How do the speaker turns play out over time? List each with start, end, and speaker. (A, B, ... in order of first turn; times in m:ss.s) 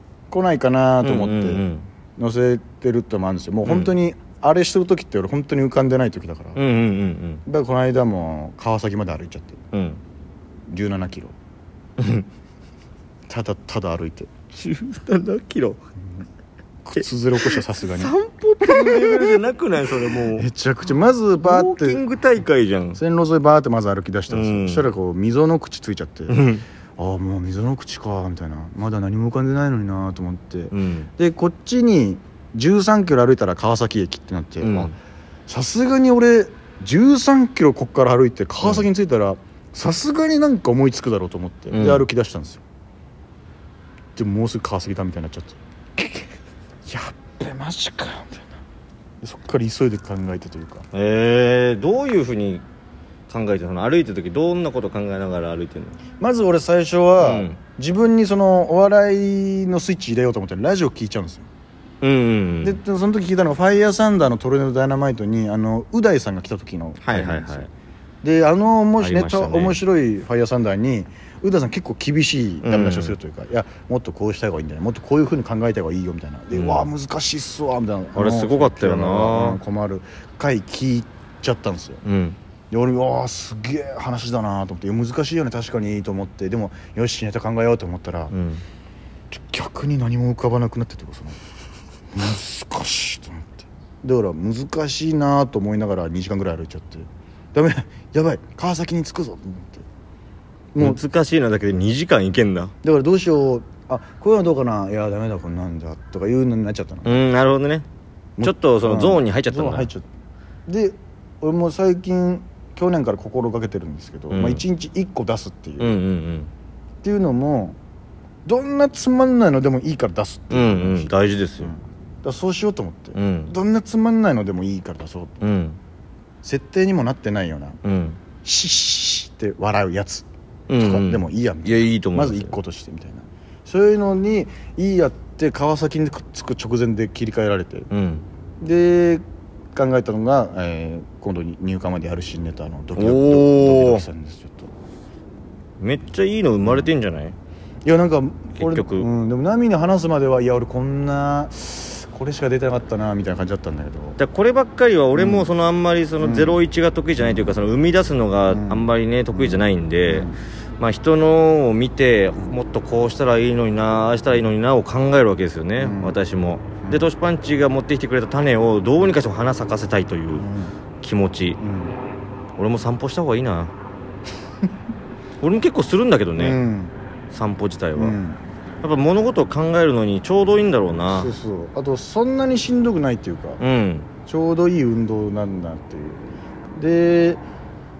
0:00.3-0:01.6 A
0:01.0-0:01.9 B
0:02.2-0:06.6 A
0:03.6-0:04.0 B
0:06.6-0:07.4 B
0:07.5-0:09.6 A
0:09.7-0:10.0 B
0:10.7-0:11.4 A
0:12.0-0:12.3 B
0:13.3-0:14.3 A
0:14.5-0:15.8 B
0:16.8-0:19.4 A
0:17.0-0:20.5 B
0:20.1-0:22.0 A
0:21.4-0:23.0 B
0:23.0-0:26.4 A
0:24.3-0:24.9 B
0:26.3-0:26.6 B
0:27.0-0:34.9 A
0:30.7-0:31.1 B
0:34.6-0:34.9 B
0:35.5-0:42.6 A
0:41.7-0:42.1 B
0:44.2-0:46.2 A
0:46.8-0:48.6 A
0:49.2-0:50.9 A
0:50.9-0:52.6 B
0:53.3-0:56.0 B
0:56.2-1:01.5 A
0:57.2-0:57.6 B
1:02.0-1:02.8 B
1:02.6-1:07.7 A
1:07.0-1:07.7 B
1:08.2-1:22.0 A
1:09.0-1:09.8 B
1:12.6-1:13.2 B
1:16.5-1:16.9 B
1:18.2-1:19.6 B
1:22.0-1:22.4 B
1:22.7-1:28.3 A
1:28.3-1:28.6 B
1:29.3-1:31.4 A
1:32.1-1:39.8 A
1:40.7-1:41.0 A
1:40.8-1:42.7 B
1:42.8-1:47.2 A
1:47.0-1:47.9 B
1:48.4-1:50.1 A
1:48.4-1:49.9 B
1:50.7-1:56.0 A
1:54.3-1:54.6 B
1:55.8-1:56.5 B
1:57.0-1:57.8 A
1:58.4-2:05.4 A
2:00.5-2:01.7 B
2:03.2-2:03.6 B
2:05.4-2:05.8 B
2:06.4-2:07.8 A
2:07.8-2:08.2 B
2:08.4-2:17.9 A
2:10.7-2:12.6 B
2:17.9-2:18.3 B
2:18.6-2:19.2 A
2:19.7-2:24.7 A
2:23.0-2:24.1 B
2:25.8-2:27.4 B
2:27.8-2:34.2 A
2:28.6-2:29.1 B
2:34.2-2:50.5 B
2:35.2-2:35.5 A
2:36.2-2:36.6 A
2:37.2-2:37.6 A
2:38.5-2:40.4 A
2:45.8-2:46.2 A
2:46.8-2:47.1 A
2:50.4-2:50.7 A
2:51.0-2:51.6 B
2:51.6-2:52.0 A
2:52.6-2:53.7 B
2:55.4-2:56.6 B
2:56.4-2:57.0 A
2:57.3-2:58.2 B
2:58.0-2:58.4 A
2:58.8-3:01.4 B
3:01.1-3:03.6 A
3:03.6-3:04.1 B
3:04.3-3:06.2 A
3:06.8-3:07.4 A